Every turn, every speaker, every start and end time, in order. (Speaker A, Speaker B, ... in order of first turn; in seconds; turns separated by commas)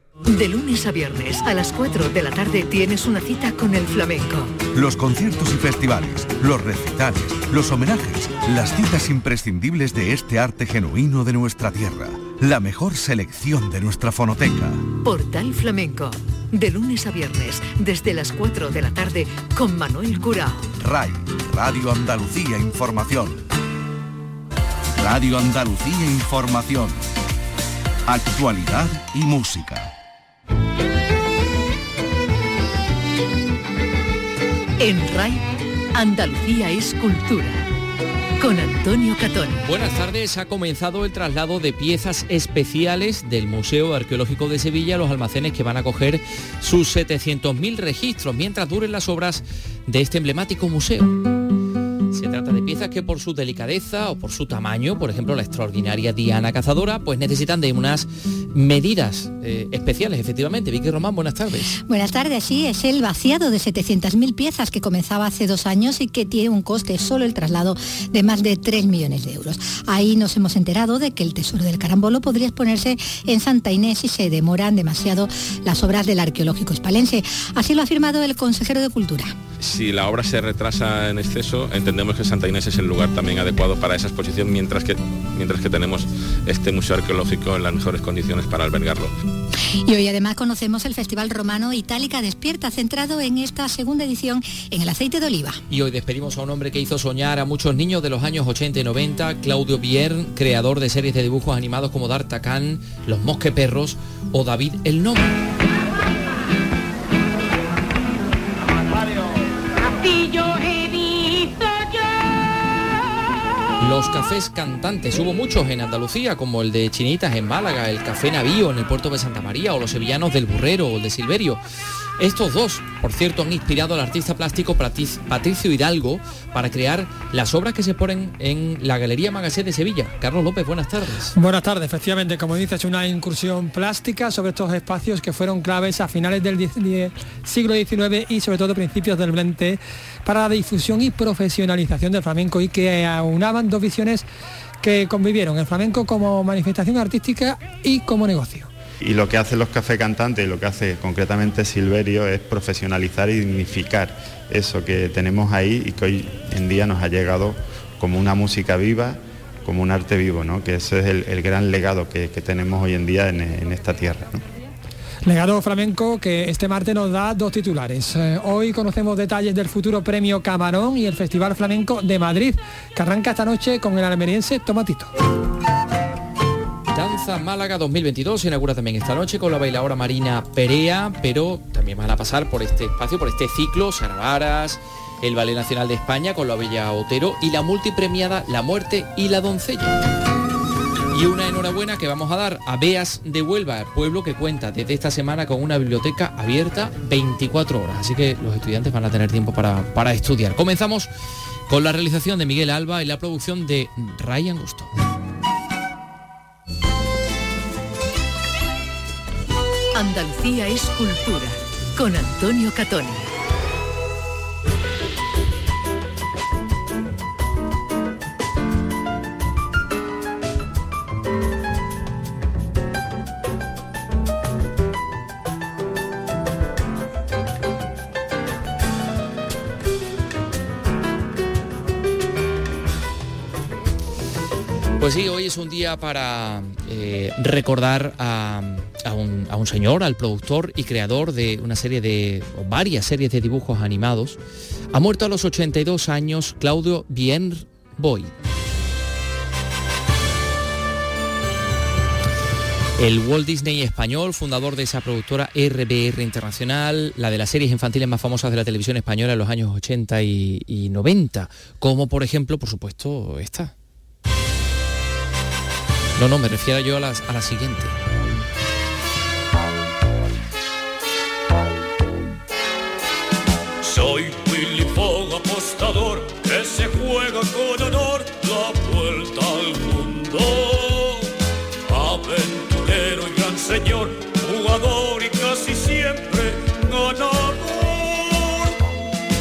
Speaker A: 0.2-4.6, Speaker B: 4.7-14.9, Speaker A: 15.0-20.7, Speaker B: 20.8-23.4, Speaker B: 25.0-27.0, Speaker B: 28.1-29.9, Speaker A: 34.8-35.4, Speaker A: 35.9-37.6, Speaker A: 38.4-39.6, Speaker C: 39.6-51.1, Speaker C: 52.1-61.7, Speaker D: 61.7-79.3, Speaker E: 79.6-89.1, Speaker D: 89.8-95.6, Speaker C: 95.7-105.3, Speaker C: 113.8-121.6, Speaker C: 122.2-131.3, Speaker F: 131.3-144.3, Speaker F: 144.8-148.7, Speaker G: 149.0-164.4, Speaker F: 165.2-175.1, Speaker C: 176.9-190.0, Speaker C: 191.1-201.1, Speaker C: 201.7-204.9, Speaker A: 209.9-213.3, Speaker C: 235.0-244.4, Speaker C: 244.9-248.3, Speaker C: 253.0-263.7, Speaker C: 266.2-267.9, Speaker H: 273.8-281.3, Speaker H: 281.9-288.6